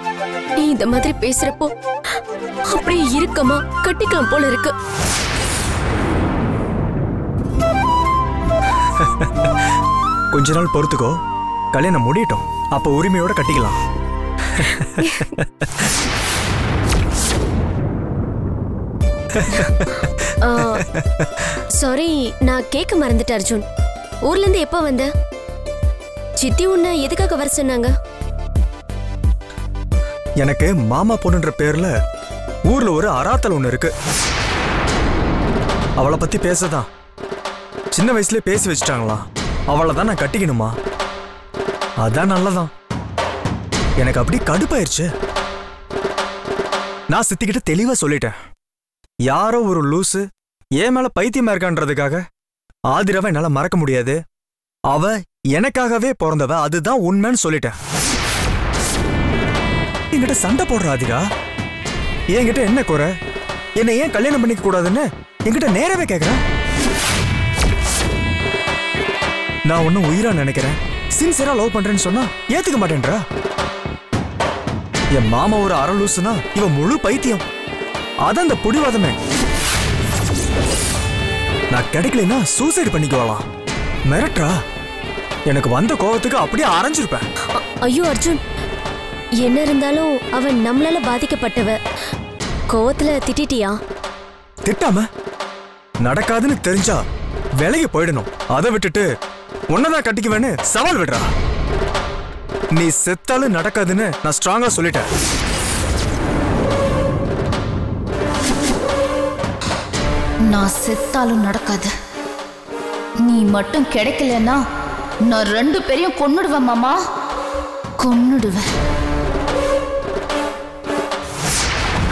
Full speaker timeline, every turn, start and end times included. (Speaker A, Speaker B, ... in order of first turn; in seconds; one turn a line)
Speaker A: 0.6-1.7
Speaker A: 2.7-4.7
Speaker B: 8.9-9.5
Speaker B: 10.3-11.2
Speaker B: 11.7-13.8
Speaker B: 14.5-15.8
Speaker A: 14.8-15.4
Speaker B: 19.3-19.9
Speaker A: 20.4-20.9
Speaker B: 20.7-21.0
Speaker A: 21.6-23.6
Speaker A: 24.2-25.1
Speaker A: 26.4-27.9
Speaker B: 30.4-31.9
Speaker B: 32.7-33.9
Speaker B: 36.0-36.9
Speaker B: 37.9-40.8
Speaker B: 42.0-42.7
Speaker B: 44.0-45.1
Speaker B: 47.1-48.4
Speaker B: 49.3-50.3
Speaker B: 50.8-52.2
Speaker B: 52.9-54.2
Speaker B: 54.9-57.8
Speaker B: 60.1-61.2
Speaker B: 62.3-63.1
Speaker B: 63.8-66.4
Speaker B: 69.7-73.2
Speaker B: 75.1-77.5
Speaker B: 78.2-79.2
Speaker B: 81.7-83.4
Speaker B: 84.1-84.6
Speaker B: 85.5-87.2
Speaker A: 87.6-88.4
Speaker A: 89.4-91.8
Speaker A: 92.7-93.8
Speaker B: 94.7-95.1
Speaker B: 96.0-97.0
Speaker B: 97.6-99.1
Speaker B: 99.7-101.3
Speaker B: 102.7-105.1
Speaker C: 110.5-111.9
Speaker C: 113.2-114.6
Speaker C: 115.3-117.0
Speaker C: 118.0-118.7